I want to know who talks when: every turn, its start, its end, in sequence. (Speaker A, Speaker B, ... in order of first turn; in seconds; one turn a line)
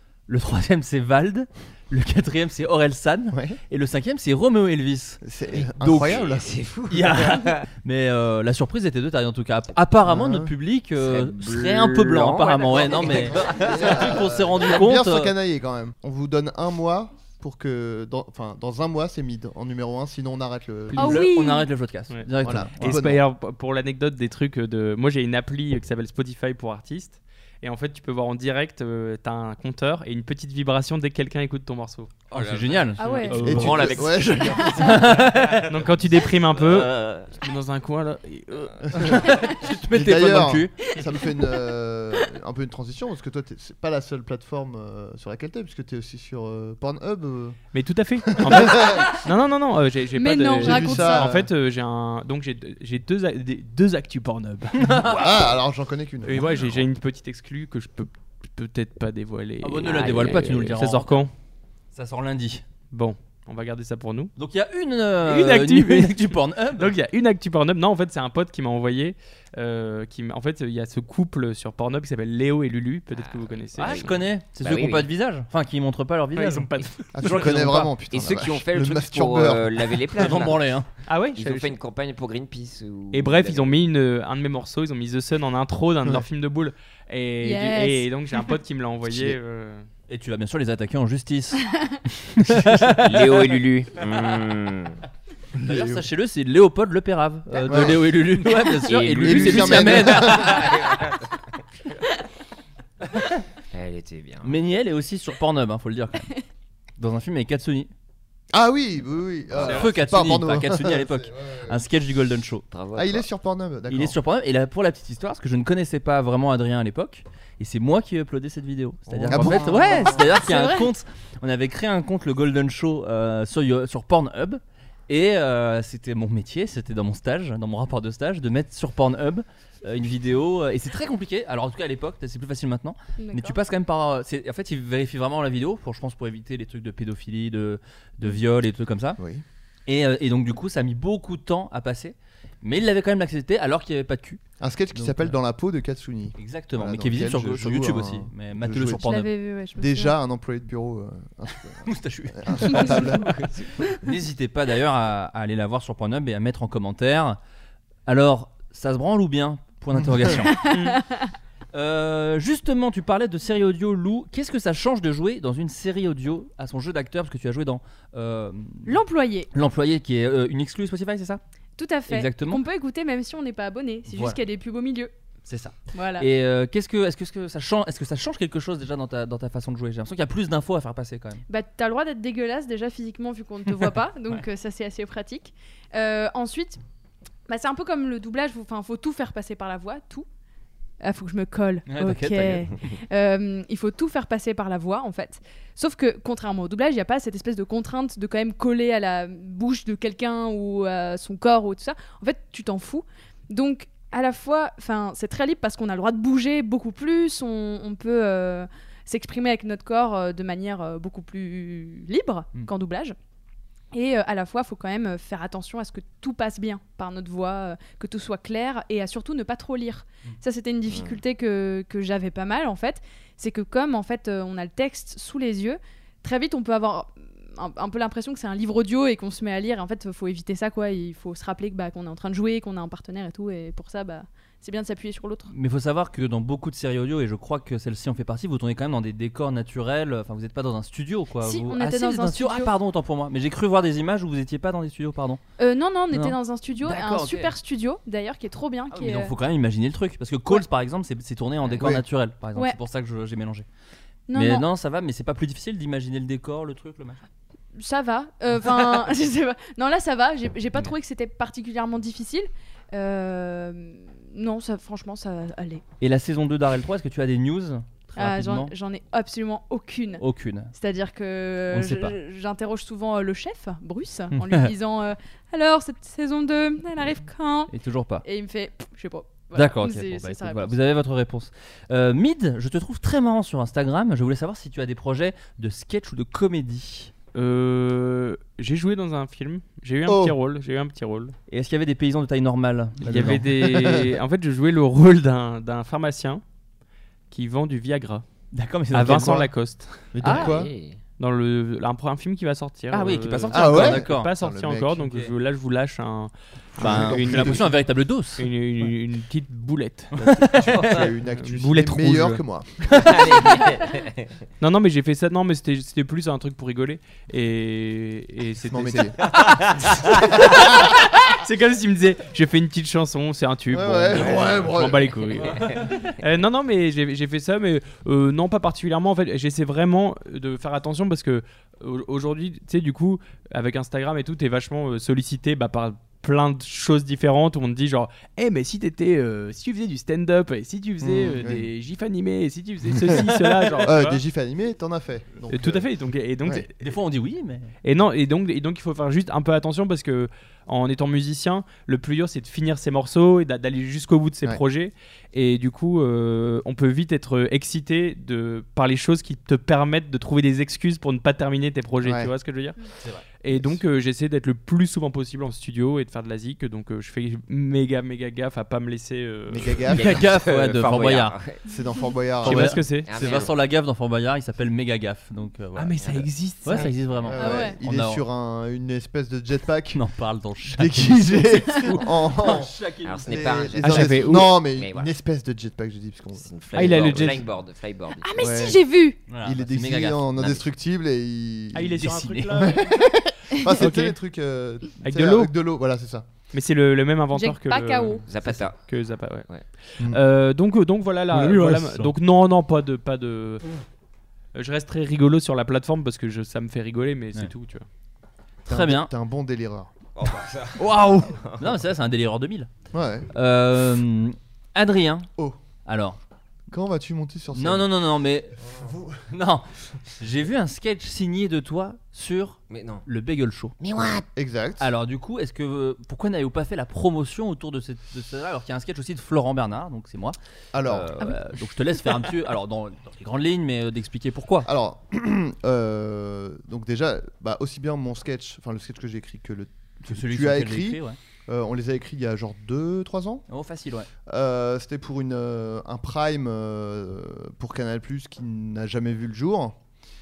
Speaker A: 0.3-5.2
Speaker B: 3.3-3.6
Speaker B: 5.2-6.5
Speaker C: 5.5-7.6
Speaker A: 5.8-6.3
Speaker A: 6.9-15.3
Speaker B: 10.1-10.5
Speaker C: 10.9-14.2
Speaker B: 12.8-21.2
Speaker D: 20.9-21.7
Speaker A: 20.9-23.1
Speaker B: 22.4-23.2
Speaker E: 22.8-32.3
Speaker A: 32.3-35.7
Speaker D: 33.0-33.4
Speaker E: 33.0-34.4
Speaker B: 33.3-35.0
Speaker C: 33.6-34.7
Speaker D: 34.6-34.9
Speaker E: 35.5-39.2
Speaker C: 36.5-37.3
Speaker B: 38.9-47.6
Speaker A: 39.0-40.7
Speaker D: 41.1-41.6
Speaker E: 47.7-55.0
Speaker B: 48.3-49.1
Speaker D: 50.2-51.3
Speaker B: 50.6-51.5
Speaker A: 54.8-55.4
Speaker B: 54.9-56.6
Speaker E: 56.2-61.3
Speaker A: 59.6-61.3
Speaker C: 59.9-60.5
Speaker A: 61.9-62.6
Speaker E: 62.9-64.3
Speaker A: 64.4-66.9
Speaker E: 65.2-74.2
Speaker C: 73.1-75.1
Speaker A: 73.8-77.9
Speaker E: 76.3-77.1
Speaker B: 77.1-80.4
Speaker C: 78.1-80.7
Speaker A: 80.2-80.9
Speaker E: 81.1-81.8
Speaker C: 81.3-83.7
Speaker E: 83.1-89.9
Speaker D: 87.4-88.1
Speaker A: 90.1-91.6
Speaker A: 92.2-93.6
Speaker C: 92.9-95.0
Speaker B: 95.6-96.0
Speaker A: 95.6-100.7
Speaker B: 97.7-98.1
Speaker C: 98.8-101.2
Speaker B: 99.1-100.7
Speaker C: 103.7-104.6
Speaker A: 104.4-106.3
Speaker A: 107.0-107.9
Speaker B: 108.5-111.8
Speaker A: 109.6-112.7
Speaker C: 112.7-113.2
Speaker B: 112.9-114.1
Speaker A: 113.9-139.2
Speaker B: 119.2-120.3
Speaker D: 120.3-120.9
Speaker D: 133.2-133.6
Speaker B: 139.2-139.4
Speaker A: 139.9-144.4
Speaker B: 144.6-149.2
Speaker A: 144.9-145.3
Speaker A: 146.4-149.3
Speaker D: 149.0-150.1
Speaker B: 149.8-153.5
Speaker A: 151.8-157.4
Speaker A: 158.1-160.9
Speaker D: 160.6-161.2
Speaker E: 160.7-160.9
Speaker A: 161.7-168.9
Speaker D: 168.8-169.5
Speaker A: 169.5-171.4
Speaker D: 171.8-175.1
Speaker A: 172.1-172.6
Speaker A: 174.1-174.4
Speaker A: 175.5-181.4
Speaker D: 175.9-176.3
Speaker D: 181.5-186.8
Speaker D: 187.5-190.2
Speaker D: 191.0-213.2
Speaker A: 191.8-192.9
Speaker D: 213.9-235.5
Speaker C: 220.9-221.2
Speaker A: 235.5-245.4
Speaker D: 241.4-242.7
Speaker D: 245.6-249.3
Speaker A: 246.1-247.5
Speaker A: 248.9-253.7
Speaker B: 251.8-252.0
Speaker D: 254.3-254.7
Speaker A: 254.3-257.2
Speaker D: 257.8-265.8
Speaker A: 266.0-268.7
Speaker D: 268.1-280.8
Speaker A: 270.2-270.7
Speaker A: 271.7-272.1
Speaker A: 274.3-274.7
Speaker A: 277.7-278.2
Speaker A: 279.5-287.1
Speaker E: 287.3-291.3
Speaker B: 290.1-290.3
Speaker A: 291.5-294.0
Speaker E: 293.0-296.4
Speaker B: 293.7-294.0
Speaker E: 297.3-298.2
Speaker A: 298.5-299.5
Speaker E: 298.9-300.1
Speaker B: 299.1-299.5
Speaker B: 300.1-300.7
Speaker A: 300.2-300.5
Speaker C: 300.2-301.0
Speaker E: 301.2-307.7
Speaker A: 302.9-304.3
Speaker B: 303.5-305.2
Speaker A: 306.8-308.5
Speaker B: 306.8-307.7
Speaker E: 308.4-310.1
Speaker A: 310.1-310.9
Speaker B: 310.2-313.3
Speaker E: 311.3-312.4
Speaker C: 313.0-314.3
Speaker E: 314.6-344.2
Speaker B: 318.6-319.1
Speaker B: 320.1-320.9
Speaker B: 323.7-325.1
Speaker C: 324.1-324.7
Speaker C: 325.4-325.9
Speaker B: 341.0-341.7
Speaker B: 343.8-345.8
Speaker E: 345.5-346.8
Speaker A: 346.8-347.7
Speaker E: 347.8-362.8
Speaker B: 362.0-362.3
Speaker E: 363.4-369.8
Speaker B: 363.5-363.8
Speaker B: 369.5-370.2
Speaker A: 369.9-371.4
Speaker C: 369.9-371.6
Speaker B: 371.6-372.8
Speaker E: 372.4-373.1
Speaker A: 372.4-378.2
Speaker C: 373.1-373.6
Speaker E: 375.7-376.9
Speaker B: 377.2-380.0
Speaker D: 377.4-377.8
Speaker A: 379.9-383.6
Speaker B: 380.7-387.4
Speaker C: 383.0-385.1
Speaker E: 383.8-384.5
Speaker C: 386.4-388.6
Speaker E: 386.7-387.4
Speaker D: 388.2-389.2
Speaker B: 388.4-388.8
Speaker A: 389.3-390.5
Speaker B: 389.4-396.3
Speaker E: 391.7-393.1
Speaker A: 391.9-392.8
Speaker E: 393.7-394.1
Speaker E: 395.0-395.5
Speaker E: 396.5-403.6
Speaker D: 397.3-398.2
Speaker C: 398.3-398.8
Speaker A: 401.3-402.1
Speaker E: 404.5-407.8
Speaker A: 408.7-409.1
Speaker B: 408.7-409.9
Speaker C: 410.1-411.8
Speaker A: 410.9-412.7
Speaker B: 412.9-413.3
Speaker A: 413.3-415.3
Speaker A: 415.9-416.2
Speaker B: 416.7-417.9
Speaker A: 417.5-418.6
Speaker B: 418.7-419.2
Speaker A: 419.3-419.6
Speaker A: 420.2-423.7
Speaker C: 422.7-423.1
Speaker C: 423.8-424.3
Speaker B: 424.3-424.9
Speaker A: 424.8-434.7
Speaker B: 430.7-431.1
Speaker B: 434.6-443.4
Speaker A: 440.1-441.2
Speaker A: 443.5-444.1
Speaker B: 444.3-449.8